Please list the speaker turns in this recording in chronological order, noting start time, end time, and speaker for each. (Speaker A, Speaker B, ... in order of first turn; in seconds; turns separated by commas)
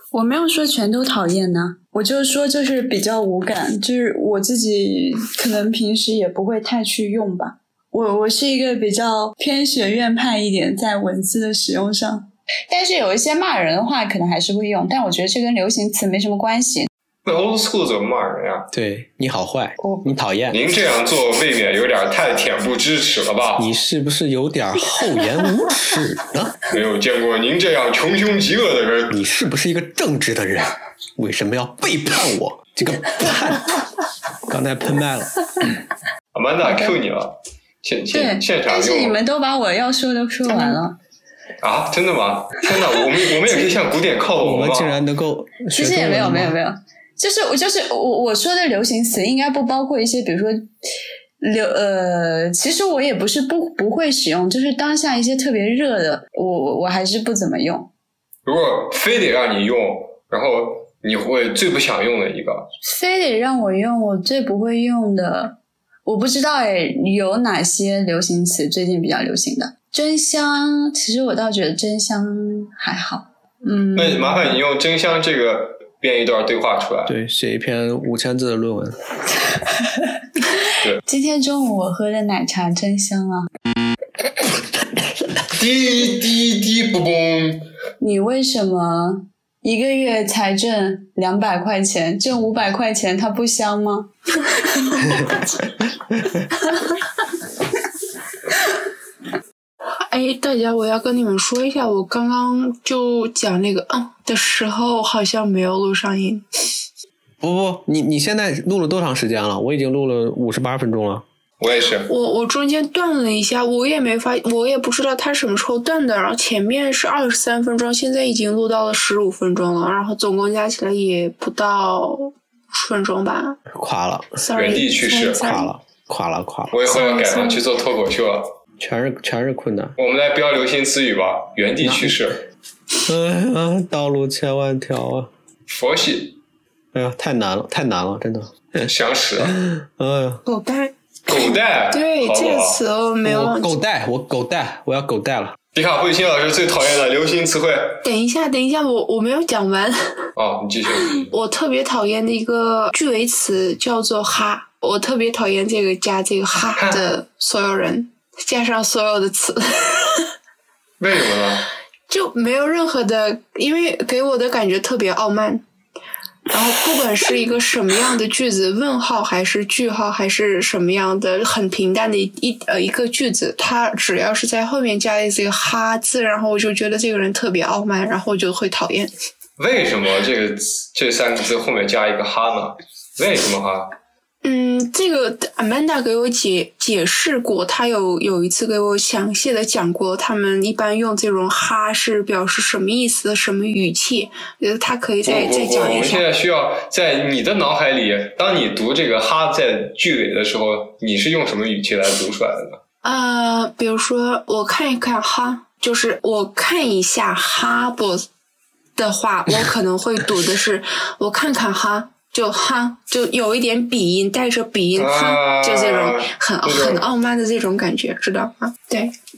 Speaker A: 0.1-16.9, Speaker B: 17.3-18.7, Speaker C: 18.7-20.6, Speaker A: 19.8-20.2, Speaker B: 20.5-23.7, Speaker C: 23.6-26.6, Speaker B: 26.7-29.2, Speaker C: 29.1-33.8, Speaker C: 34.5-35.7, Speaker B: 36.3-39.2, Speaker A: 38.1-41.0, Speaker B: 41.6-45.0, Speaker C: 44.4-46.5, Speaker A: 45.7-50.7, Speaker A: 51.4-57.9, Speaker B: 58.5-62.7, Speaker A: 62.8-74.5, Speaker B: 74.0-77.2, Speaker C: 77.1-79.0, Speaker A: 81.0-83.5, Speaker B: 85.5-87.7, Speaker A: 88.0-94.1, Speaker A: 94.9-95.2, Speaker D: 100.1-106.4, Speaker C: 107.4-111.2, Speaker B: 111.6-112.1, Speaker D: 112.1-123.6, Speaker C: 123.7-124.4, Speaker D: 124.4-125.7, Speaker B: 124.5-125.4, Speaker C: 125.4-126.8, Speaker B: 126.7-128.5, Speaker D: 126.9-127.7, Speaker C: 128.8-129.9, Speaker B: 130.0-132.4, Speaker C: 131.8-132.2, Speaker C: 133.1-135.3, Speaker B: 135.7-136.4, Speaker C: 136.9-140.4, Speaker B: 138.8-139.6, Speaker D: 140.5-143.8, Speaker B: 141.3-142.8, Speaker C: 143.2-145.6, Speaker B: 145.7-148.0, Speaker D: 148.0-150.2, Speaker B: 150.4-151.3, Speaker D: 151.3-160.2, Speaker B: 156.8-157.1, Speaker B: 161.0-161.7, Speaker D: 162.1-165.6, Speaker D: 166.5-179.1, Speaker B: 179.6-183.9, Speaker D: 184.4-196.3, Speaker B: 195.3-202.8, Speaker D: 203.0-208.2, Speaker D: 209.0-219.1, Speaker B: 214.9-217.1